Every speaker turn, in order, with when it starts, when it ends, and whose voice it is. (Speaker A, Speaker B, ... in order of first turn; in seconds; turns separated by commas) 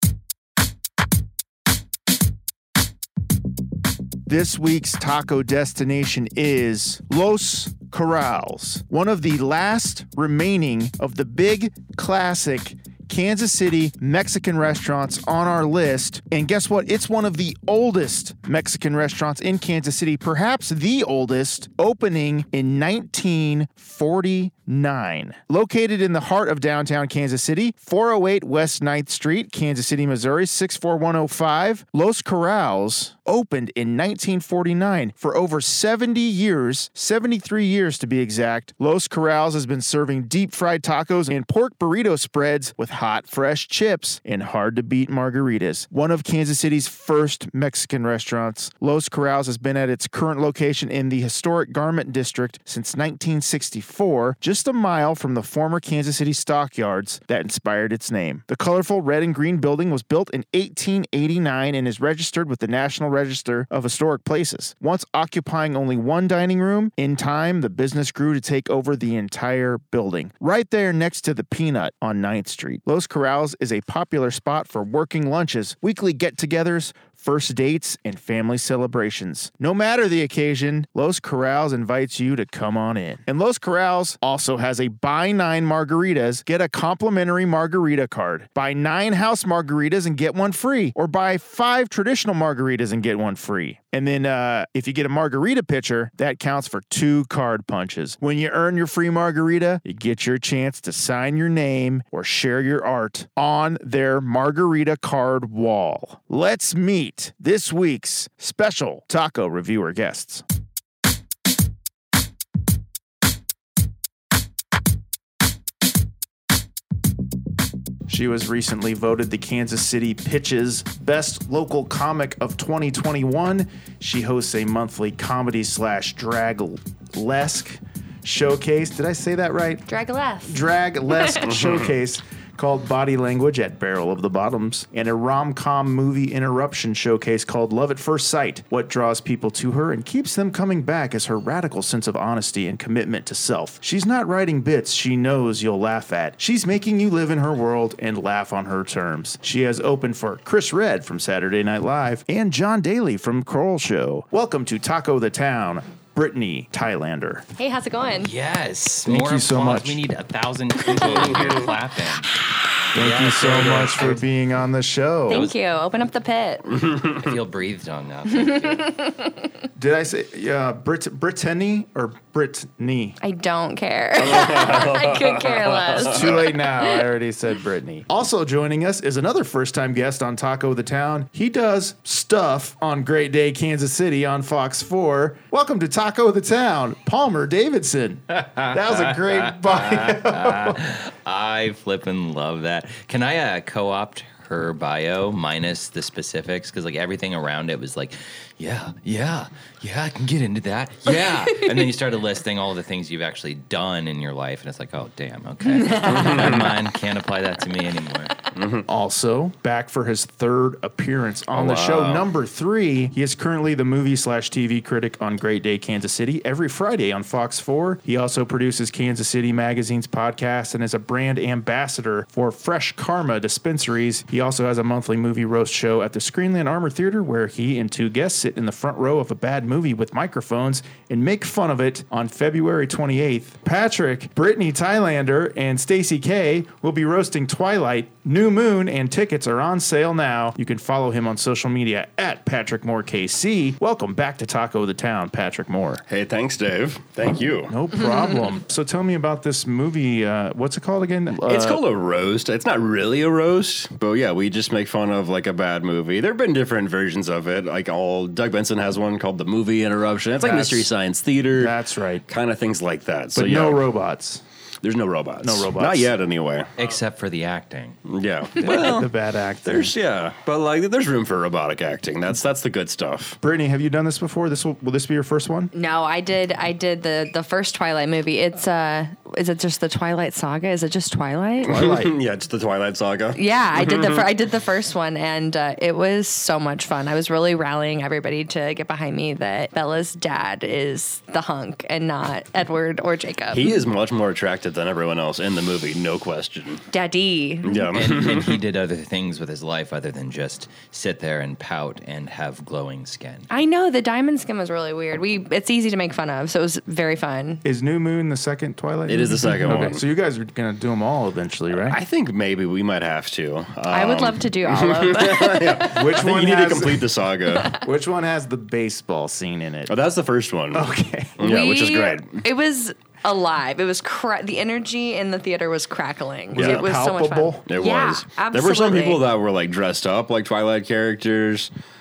Speaker A: 4.3-110.5, Speaker A: 118.1-129.9, Speaker B: 129.9-131.5, Speaker A: 130.5-157.4, Speaker C: 131.5-131.9, Speaker B: 157.6-158.3, Speaker D: 158.2-162.3, Speaker A: 159.1-160.0, Speaker B: 161.0-161.4, Speaker C: 161.2-161.4, Speaker D: 162.9-164.2, Speaker A: 162.9-165.5, Speaker B: 165.3-166.7, Speaker C: 166.7-167.3, Speaker D: 167.1-168.9, Speaker A: 169.8-173.2, Speaker B: 173.2-177.1, Speaker C: 174.2-176.4, Speaker A: 176.0-190.8, Speaker D: 188.3-208.3, Speaker B: 205.7-206.7, Speaker C: 206.1-206.7, Speaker C: 208.6-208.9, Speaker A: 208.9-246.0, Speaker C: 211.5-212.3, Speaker C: 246.1-247.8, Speaker A: 247.3-251.8, Speaker C: 251.3-261.8, Speaker A: 260.4-260.9, Speaker A: 261.5-262.3, Speaker C: 262.3-263.8, Speaker A: 263.3-264.4, Speaker C: 264.8-266.7, Speaker A: 265.4-266.1, Speaker D: 266.8-268.0, Speaker C: 268.1-269.1, Speaker A: 268.6-269.9, Speaker C: 269.7-273.4, Speaker A: 273.4-275.7, Speaker B: 275.7-281.8, Speaker A: 281.6-282.2, Speaker C: 281.7-284.3, Speaker B: 283.4-293.8, Speaker C: 293.5-296.8, Speaker B: 296.9-297.9, Speaker C: 297.6-298.6, Speaker D: 297.9-303.5, Speaker B: 303.5-307.6, Speaker A: 307.6-312.0, Speaker C: 309.1-310.0, Speaker C: 311.8-317.7, Speaker B: 313.9-316.0, Speaker A: 315.9-317.2, Speaker A: 317.8-319.9, Speaker C: 319.9-320.9, Speaker A: 320.7-321.4, Speaker C: 321.4-322.4, Speaker B: 321.4-329.3, Speaker C: 326.5-326.9, Speaker A: 326.6-327.7, Speaker C: 327.7-331.7